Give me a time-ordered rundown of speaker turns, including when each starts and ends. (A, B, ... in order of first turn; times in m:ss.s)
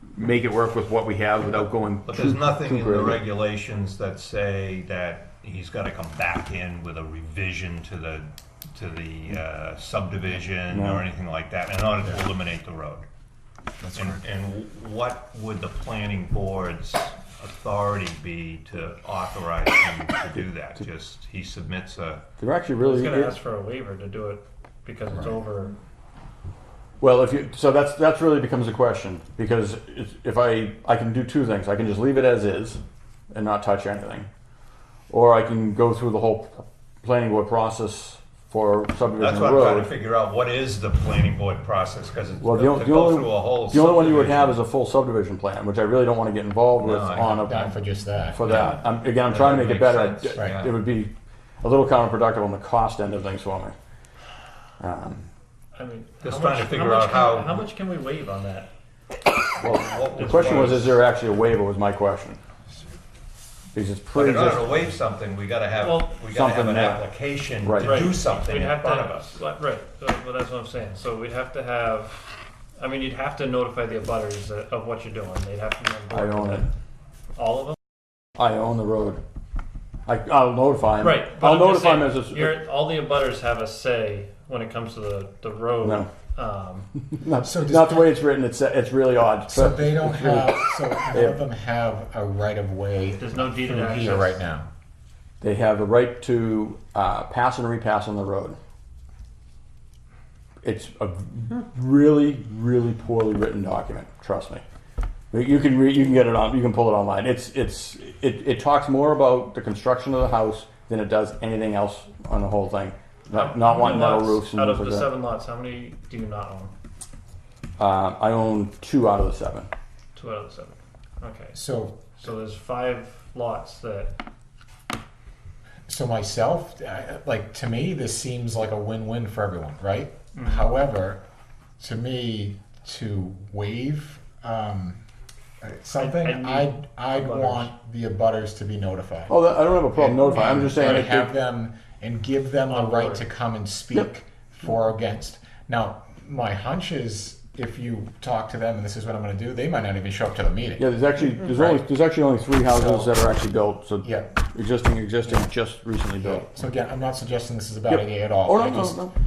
0:00.1-0:03.2 A
0:02.0-0:13.1 B
0:10.7-0:11.0 A
0:13.9-0:22.3 B
0:22.4-0:23.3 A
0:22.8-0:25.8 C
0:27.0-0:32.8 A
0:33.3-0:34.3 A
0:35.1-0:39.9 A
0:39.2-0:44.6 B
0:42.4-0:47.8 A
0:46.8-0:47.5 B
0:47.4-0:48.5 D
0:48.3-0:53.7 A
0:48.4-0:50.8 B
0:54.8-0:55.3 A
0:55.7-0:58.7 C
0:56.2-0:57.6 B
0:59.6-1:01.0 B
0:59.6-1:02.4 A
1:03.7-1:04.7 A
1:04.1-1:09.4 B
1:05.8-1:06.2 C
1:06.3-1:07.0 A
1:07.6-1:08.0 A
1:07.8-1:16.7 C
1:16.1-1:16.7 A
1:17.4-1:17.8 C
1:18.4-1:19.2 A
1:20.1-1:22.6 A
1:21.0-1:26.9 C
1:25.8-1:26.1 A
1:27.1-1:31.4 A
1:27.4-1:28.1 D
1:29.5-1:34.7 D
1:33.2-1:34.4 C
1:35.4-1:38.6 A
1:40.6-1:44.6 A
1:45.3-1:55.1 A
1:53.3-1:56.7 C
1:57.8-1:59.7 A
2:00.2-2:01.6 C
2:01.5-2:02.2 D
2:02.1-2:04.1 C
2:05.9-2:11.2 D
2:10.4-2:10.7 C
2:11.8-2:15.0 D
2:15.6-2:30.8 D
2:16.0-2:17.7 C
2:19.3-2:21.3 A
2:22.7-2:23.2 C
2:30.8-2:36.5 A
2:31.5-2:31.8 D
2:32.7-2:33.2 D
2:34.0-2:34.3 D
2:36.2-2:39.1 D
2:37.9-2:39.1 A